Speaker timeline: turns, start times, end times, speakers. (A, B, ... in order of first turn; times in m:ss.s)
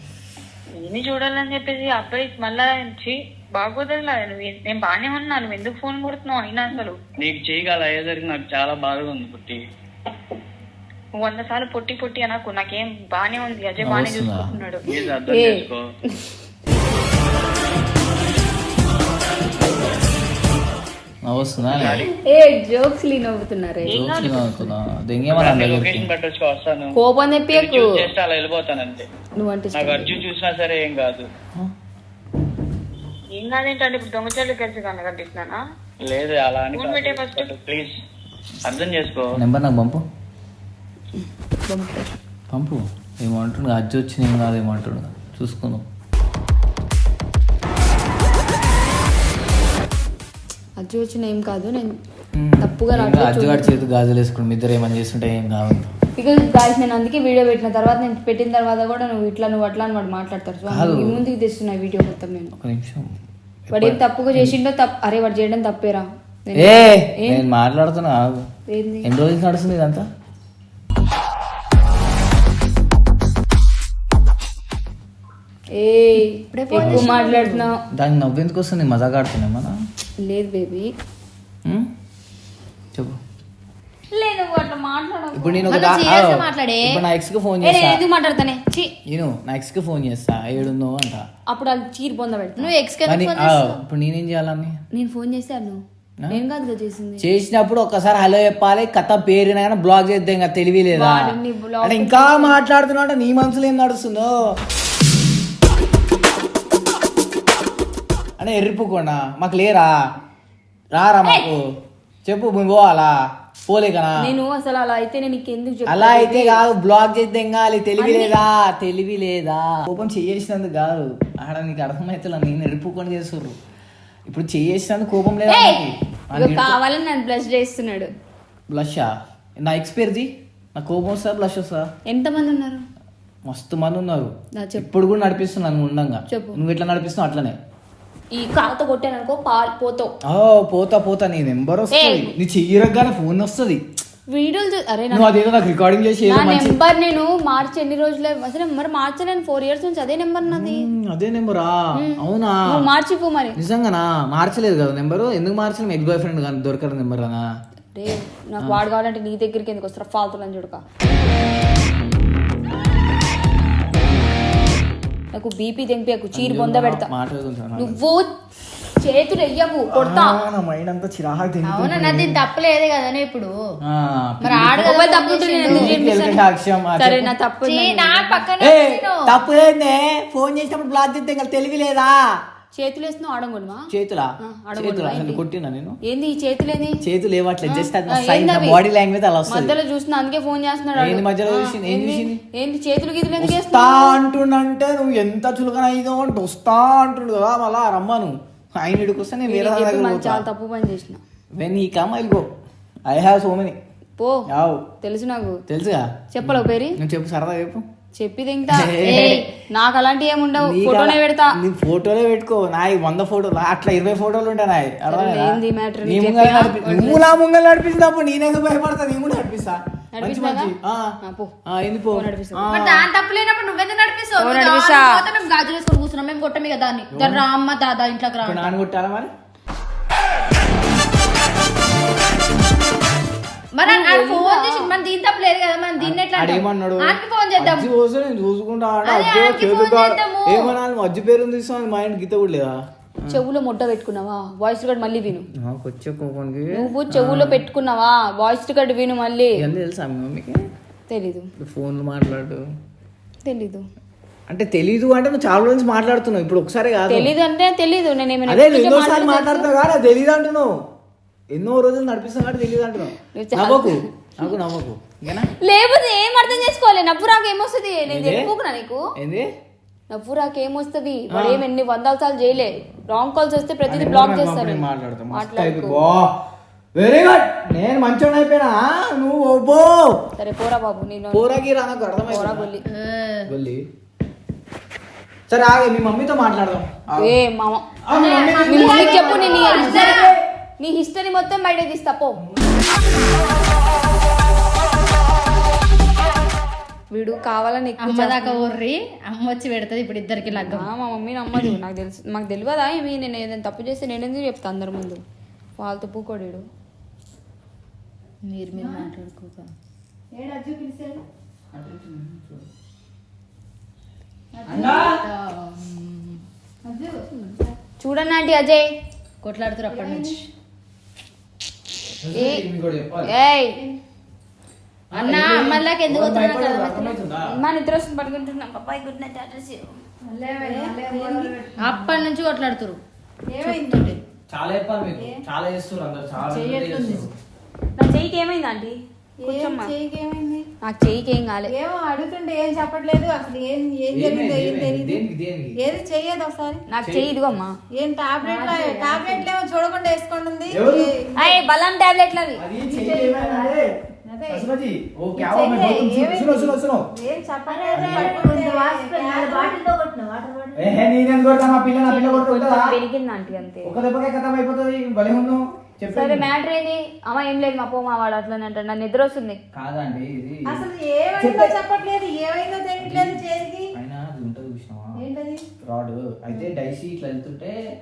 0:00.8-0:07.0 A
0:07.2-0:09.6 B
0:11.2-0:14.8 A
0:13.8-0:14.6 C
0:14.9-0:15.8 B
0:15.3-0:15.6 D
0:21.2-0:22.1 C
0:21.7-0:22.1 B
0:22.3-0:24.3 D
0:23.9-0:26.1 C
0:23.9-0:24.4 A
0:25.4-0:27.0 B
0:26.9-0:27.9 D
0:27.5-0:29.1 B
0:29.4-0:30.2 D
0:29.8-0:31.3 B
0:33.4-0:35.6 A
0:36.1-0:37.9 B
0:36.7-0:37.5 A
0:38.7-0:39.4 B
0:39.3-0:40.0 C
0:41.7-0:42.2 D
0:42.5-0:45.8 C
0:50.8-0:52.0 D
0:52.4-0:55.9 C
0:52.6-0:53.8 D
0:56.2-1:02.5 D
1:00.7-1:01.2 C
1:02.6-1:03.1 C
1:03.7-1:04.6 C
1:03.7-1:07.4 D
1:06.6-1:08.4 C
1:08.7-1:09.1 D
1:09.0-1:10.1 C
1:15.8-1:17.8 D
1:16.5-1:17.7 E
1:16.8-1:17.1 C
1:17.9-1:19.8 C
1:20.2-1:20.9 D
1:24.1-1:25.8 D
1:25.3-1:28.0 C
1:25.7-1:27.0 E
1:27.6-1:28.9 D
1:29.1-1:31.2 C
1:31.5-1:32.7 D
1:32.6-1:33.8 E
1:33.0-1:34.8 C
1:34.9-1:37.2 D
1:37.2-1:41.3 C
1:40.9-1:42.6 D
1:41.8-1:44.6 C
1:48.4-1:49.9 C
1:50.9-1:51.7 C
1:52.2-1:53.1 C
1:53.7-1:54.2 C
1:54.2-1:56.6 D
1:55.9-2:03.6 C
1:58.0-1:58.4 D
2:04.3-2:06.8 C
2:05.5-2:08.1 D
2:08.7-2:11.9 C
2:12.1-2:12.8 D
2:13.5-2:17.6 C
2:14.6-2:14.8 D
2:16.3-2:16.6 D
2:18.3-2:20.1 D
2:20.3-2:23.8 C
2:21.9-2:22.3 D
2:24.3-2:25.4 D
2:25.1-2:26.8 C
2:26.2-2:30.9 D
2:30.4-2:32.9 C
2:32.0-2:33.6 D
2:33.6-2:37.4 C
2:38.0-2:40.8 D
2:45.3-2:47.1 D
2:46.3-2:48.0 C
2:47.8-2:48.3 D
2:49.0-2:50.4 D
2:49.9-2:52.4 C
2:51.6-2:53.5 E
2:53.9-2:54.9 C
2:54.4-2:55.9 E
2:54.8-2:56.4 D
2:55.7-2:57.3 C
2:57.0-2:58.4 D
2:57.6-2:59.4 E
2:58.6-3:02.3 C
3:02.8-3:03.9 D
3:03.9-3:06.0 C
3:04.4-3:05.4 D
3:06.0-3:07.0 D
3:07.0-3:09.8 C
3:07.7-3:08.8 D
3:09.5-3:14.2 D
3:11.0-3:12.4 C
3:13.4-3:20.4 C
3:19.5-3:21.2 D
3:21.5-3:22.5 C
3:23.1-3:23.8 C
3:24.2-3:24.4 D
3:24.5-3:24.8 C
3:25.0-3:25.6 D
3:25.7-3:27.8 C
3:26.3-3:27.0 D
3:28.2-3:29.0 D
3:28.7-3:29.5 C
3:29.0-3:29.5 E
3:29.7-3:31.5 D
3:30.6-3:41.0 C
3:35.1-3:37.2 D
3:40.2-3:40.7 D
3:41.2-3:41.5 D
3:41.7-3:43.1 C
3:42.1-3:42.7 D
3:42.7-3:48.7 E
3:44.4-3:45.2 D
3:47.1-3:47.4 C
3:48.4-3:49.3 C
3:53.8-3:57.9 E
3:53.8-3:54.9 D
3:56.0-4:02.8 C
3:59.0-4:00.8 E
4:03.3-4:05.4 D
4:05.5-4:07.6 C
4:06.8-4:09.6 D
4:09.6-4:10.6 C
4:11.1-4:11.5 D
4:11.6-4:12.6 C
4:13.4-4:13.8 D
4:14.5-4:17.3 C
4:17.1-4:19.7 D
4:18.5-4:20.8 C
4:21.5-4:25.5 C
4:23.3-4:24.0 D
4:25.6-4:29.0 D
4:28.1-4:28.5 C
4:29.2-4:29.5 C
4:30.1-4:36.0 D
4:31.3-4:31.6 C
4:33.9-4:36.3 C
4:37.0-4:40.2 C
4:40.4-4:41.5 D
4:41.3-4:42.7 C
4:42.3-4:42.8 D
4:42.9-4:43.5 E
4:43.5-4:43.8 C
4:45.5-4:47.3 C
4:47.2-4:47.8 D
4:48.0-4:50.4 C
4:48.1-4:50.3 E
4:48.2-4:49.1 F
4:48.6-4:50.3 D
4:50.8-4:52.4 D
4:57.1-4:58.7 D
4:58.0-5:00.9 E
5:00.5-5:05.2 D
5:05.8-5:06.6 D
5:08.5-5:09.7 E
5:08.7-5:09.1 F
5:10.3-5:11.2 F
5:11.7-5:12.7 C
5:14.5-5:15.2 F
5:14.7-5:15.2 C
5:14.8-5:16.4 E
5:16.8-5:17.8 F
5:18.0-5:18.9 D
5:19.4-5:20.5 E
5:19.9-5:20.4 F
5:22.2-5:23.3 C
5:22.3-5:22.6 D
5:23.3-5:23.8 D
5:25.1-5:27.6 C
5:25.1-5:27.2 E
5:27.5-5:30.0 D
5:30.3-5:32.0 F
5:30.6-5:31.6 D
5:31.8-5:33.0 E
5:33.5-5:34.2 F
5:33.6-5:34.1 D
5:34.5-5:37.3 C
5:35.2-5:35.4 F
5:36.4-5:37.3 F
5:38.0-5:39.9 D
5:39.4-5:40.6 F
5:40.8-5:41.7 D
5:41.7-5:45.2 F
5:44.1-5:45.7 C
5:45.8-5:46.8 F
5:46.9-5:47.7 D
5:47.0-5:47.3 C
5:47.9-5:51.6 F
5:48.5-5:49.1 E
5:50.7-5:51.1 C
5:51.4-5:52.6 D
5:52.6-5:53.9 C
5:52.9-5:54.7 F
5:54.5-5:57.0 C
5:55.4-5:59.8 F
5:57.7-6:00.9 E
5:57.9-5:58.3 C
6:00.8-6:03.0 C
6:01.9-6:04.0 D
6:03.8-6:06.5 C
6:06.1-6:09.6 D
6:09.7-6:10.8 C
6:10.6-6:13.9 F
6:11.4-6:11.7 C
6:13.0-6:13.4 C
6:14.0-6:15.2 C
6:15.1-6:15.6 F
6:15.8-6:17.8 C